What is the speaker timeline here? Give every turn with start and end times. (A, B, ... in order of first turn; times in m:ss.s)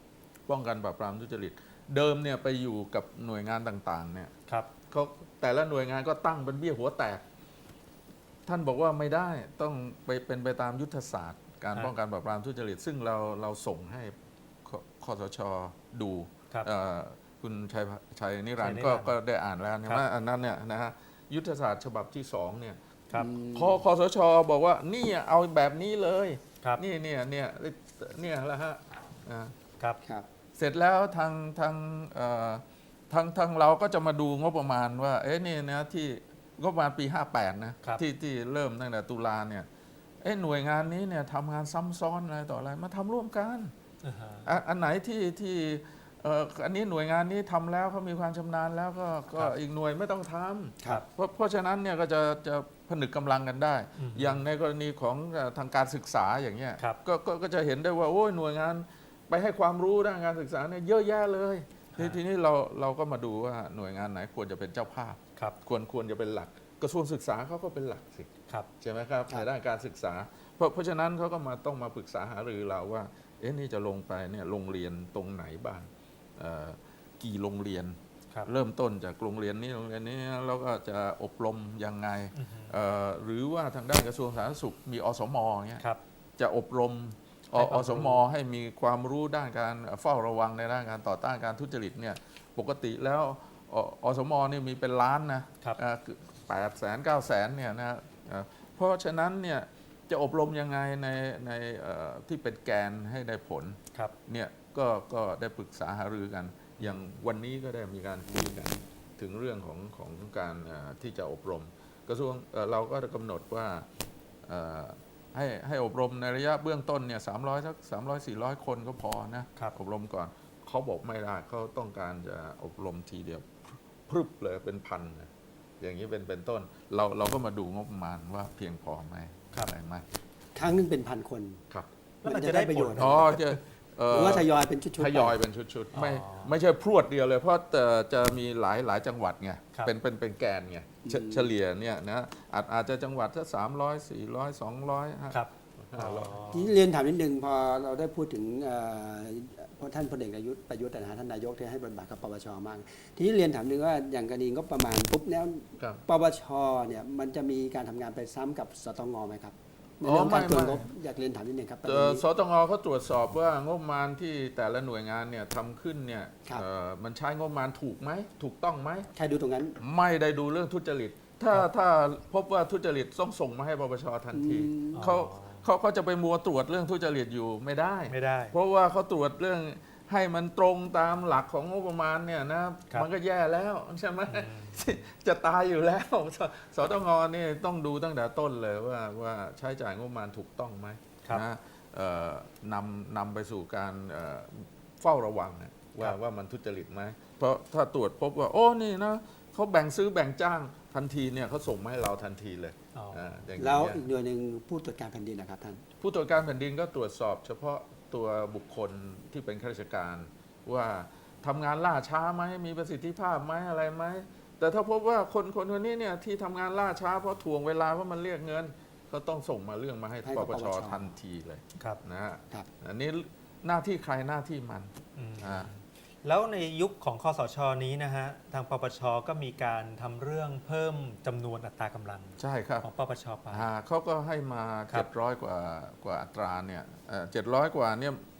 0:00.5-0:04.3 A
0:04.9-0:07.2 A
0:08.5-0:22.8 A
0:18.6-0:19.1 B
0:23.1-0:23.8 C
0:23.5-0:29.6 A
0:30.6-0:39.7 A
0:40.2-0:43.7 A
0:44.0-0:44.5 B
0:44.4-1:25.8 A
0:54.0-0:54.4 B
1:22.4-1:22.8 B
1:26.4-1:53.9 A
1:27.6-1:28.2 B
1:54.4-2:10.0 A
2:10.6-2:11.6 C
2:12.2-2:13.6 B
2:12.2-2:13.3 C
2:13.0-2:26.3 A
2:14.1-2:15.4 C
2:15.9-2:16.6 B
2:21.0-2:21.5 C
2:25.3-2:26.7 B
2:26.5-2:42.2 C
2:40.0-2:40.9 A
2:41.8-2:49.1 A
2:49.2-2:49.8 C
2:49.8-3:24.0 A
2:54.3-2:55.0 C
2:55.0-2:55.6 B
2:58.1-2:58.6 B
3:04.3-3:04.8 B
3:23.0-3:23.2 B
3:23.6-3:25.8 C
3:26.0-3:45.7 A
3:40.2-3:41.1 C
3:45.2-3:53.7 B
3:52.4-3:52.9 A
3:53.5-3:58.2 A